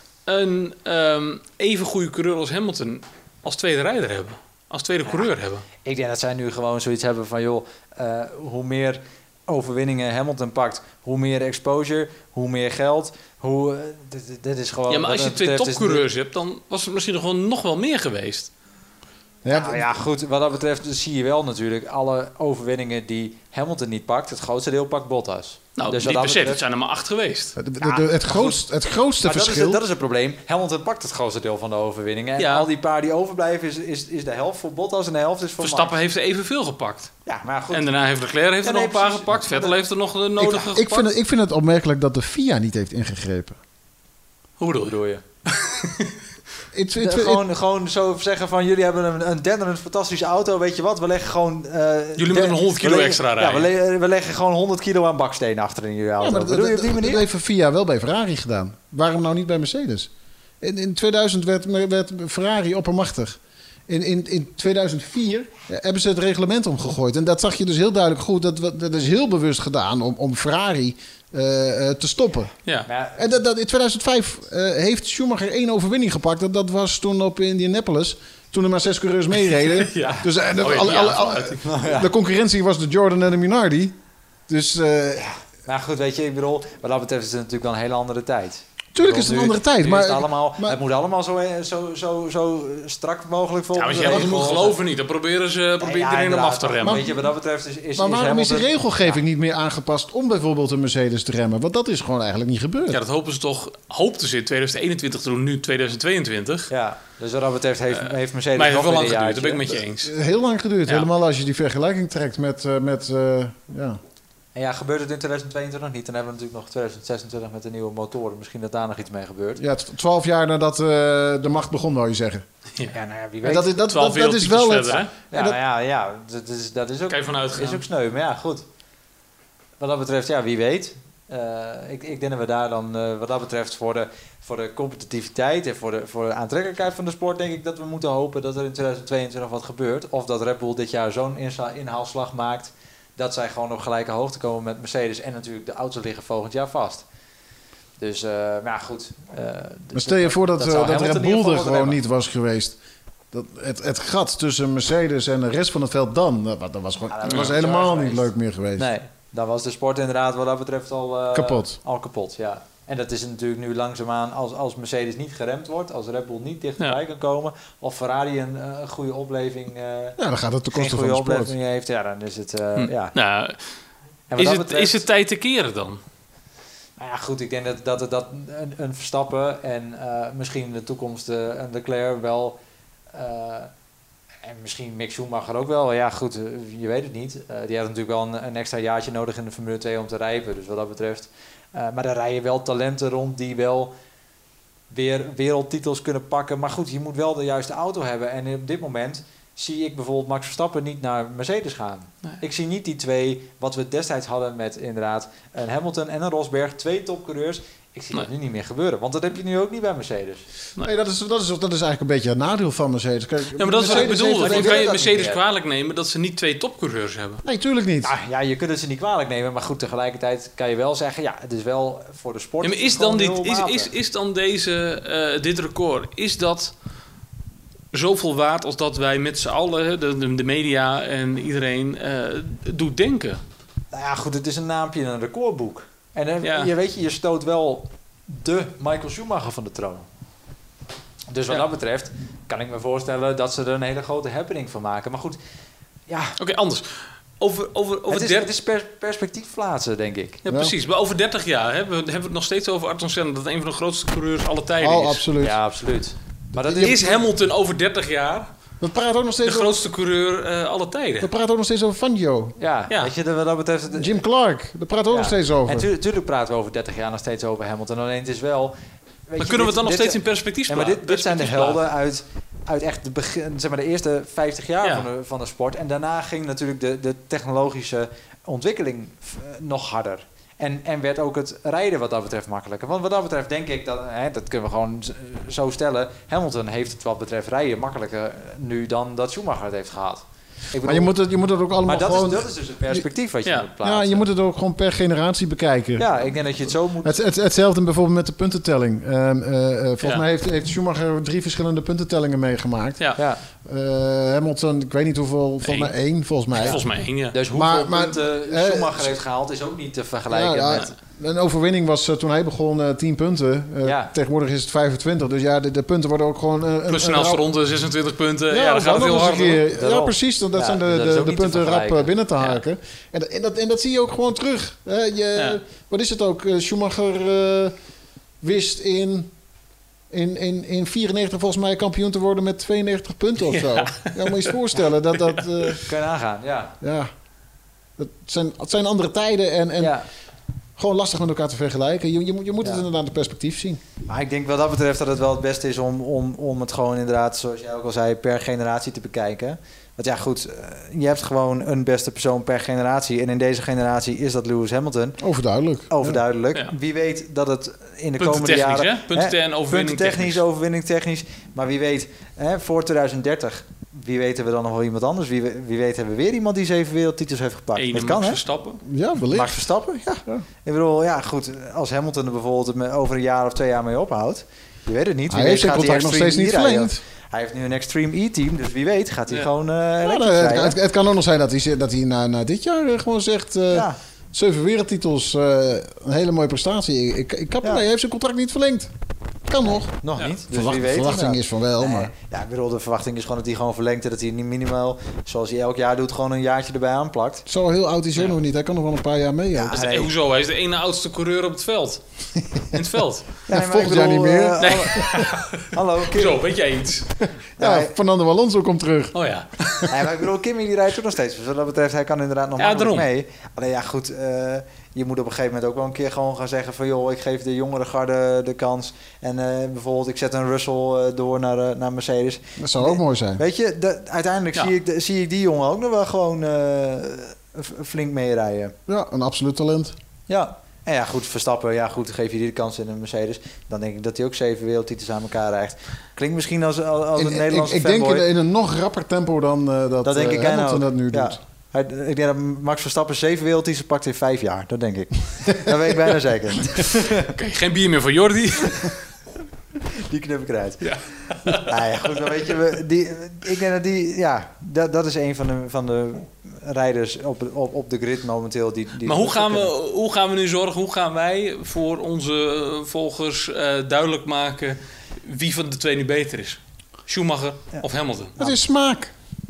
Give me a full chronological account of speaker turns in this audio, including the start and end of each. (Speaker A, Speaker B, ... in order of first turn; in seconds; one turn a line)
Speaker A: 0.2-5.7
Speaker B: 5.8-16.1
Speaker A: 14.9-18.5
Speaker C: 19.4-19.8
Speaker B: 19.5-26.6
Speaker A: 25.8-27.6
Speaker C: 27.6-29.8
Speaker B: 27.8-28.6
Speaker B: 29.2-35.9
Speaker A: 32.4-32.7
Speaker A: 35.6-37.1
Speaker B: 37.3-37.9
Speaker A: 37.7-41.1
Speaker B: 38.6-39.8
Speaker C: 40.4-43.6
Speaker A: 44.6-46.1
Speaker B: 44.9-45.2
Speaker C: 46.7-47.4
Speaker B: 47.0-57.2
Speaker A: 52.2-53.7
Speaker C: 56.2-60.1
Speaker C: 60.6-72.5
Speaker B: 72.9-73.3
Speaker C: 73.2-84.0
Speaker A: 79.5-81.6
Speaker B: 80.0-82.1
Speaker C: 84.5-85.3
Speaker B: 85.2-94.8
Speaker C: 89.0-90.8
Speaker A: 93.8-97.1
Speaker C: 94.0-94.3
Speaker B: 95.8-99.2
Speaker C: 96.8-97.1
Speaker C: 98.0-103.0
Speaker A: 102.9-106.7
Speaker B: 106.7-109.6
Speaker A: 108.0-110.1
Speaker C: 110.0-114.0
Speaker B: 114.5-119.6
Speaker C: 119.6-122.5
Speaker B: 122.9-123.8
Speaker C: 123.4-125.6
Speaker A: 123.8-125.1
Speaker B: 124.9-128.7
Speaker A: 127.1-127.8
Speaker B: 129.8-147.1
Speaker B: 148.0-152.0
Speaker C: 149.9-152.8
Speaker C: 153.3-158.9
Speaker B: 157.1-170.2
Speaker C: 161.3-161.8
Speaker C: 170.2-171.5
Speaker B: 170.7-173.1
Speaker A: 172.8-173.8
Speaker B: 174.3-175.1
Speaker A: 174.4-176.0
Speaker B: 177.0-182.6
Speaker B: 183.1-183.7
Speaker B: 184.4-193.9
Speaker B: 194.9-210.5
Speaker C: 210.8-214.9
Speaker A: 213.6-217.4
Speaker B: 213.8-215.4
Speaker C: 217.4-218.1
Speaker B: 218.0-223.9
Speaker A: 222.6-226.8
Speaker A: 227.9-233.4
Speaker B: 233.9-240.1
Speaker A: 236.4-236.7
Speaker B: 241.3-245.4
Speaker B: 246.1-246.4
Speaker A: 246.4-248.5
Speaker B: 248.1-250.4
Speaker A: 250.4-255.2
Speaker C: 250.5-250.7
Speaker C: 254.8-255.6
Speaker B: 255.4-257.1
Speaker C: 256.6-257.2
Speaker A: 256.7-258.5
Speaker C: 258.8-259.7
Speaker A: 259.4-261.3
Speaker C: 261.2-262.6
Speaker B: 262.6-264.2
Speaker C: 263.9-265.9
Speaker B: 265.1-268.8
Speaker B: 269.3-291.1
Speaker A: 269.4-271.8
Speaker C: 290.9-293.1
Speaker B: 291.9-294.3
Speaker C: 293.8-296.1
Speaker B: 296.0-297.2
Speaker C: 297.0-303.0
Speaker B: 303.2-303.4
Speaker C: 303.6-306.8
Speaker A: 305.6-305.9
Speaker A: 306.6-307.4
Speaker B: 306.6-310.9
Speaker C: 307.5-309.2
Speaker C: 310.3-317.5
Speaker B: 313.8-314.1
Speaker A: 316.9-319.6
Speaker C: 318.5-327.8
Speaker B: 319.7-322.1
Speaker C: 328.4-329.3
Speaker C: 330.1-335.9
Speaker A: 333.5-334.6
Speaker A: 335.2-335.8
Speaker B: 335.9-336.8
Speaker C: 336.8-337.1
Speaker C: 338.0-340.0
Speaker B: 339.8-340.1
Speaker C: 340.8-343.8
Speaker B: 344.1-355.2
Speaker C: 355.2-356.2
Speaker B: 355.9-368.4
Speaker A: 358.2-360.4
Speaker A: 367.8-368.8
Speaker C: 368.8-370.4
Speaker B: 369.3-380.8
Speaker C: 375.3-377.0
Speaker C: 380.0-388.9
Speaker B: 383.7-384.0
Speaker C: 389.5-390.0
Speaker B: 389.6-397.5
Speaker C: 390.5-392.1
Speaker C: 397.5-399.8
Speaker B: 399.6-400.1
Speaker A: 399.7-402.0
Speaker A: 402.6-403.5
Speaker C: 403.5-405.3
Speaker B: 403.5-406.4
Speaker A: 404.6-407.2
Speaker C: 407.2-409.2
Speaker B: 407.6-407.9
Speaker A: 409.1-410.0
Speaker B: 409.9-428.8
Speaker A: 412.6-413.1
Speaker C: 422.6-423.4
Speaker C: 428.9-429.9
Speaker B: 430.3-438.2
Speaker C: 437.2-441.4
Speaker B: 440.0-447.3
Speaker A: 447.2-449.1
Speaker B: 450.0-450.9
Speaker A: 450.8-452.4
Speaker B: 451.6-459.7
Speaker A: 459.0-468.3
Speaker C: 468.4-469.1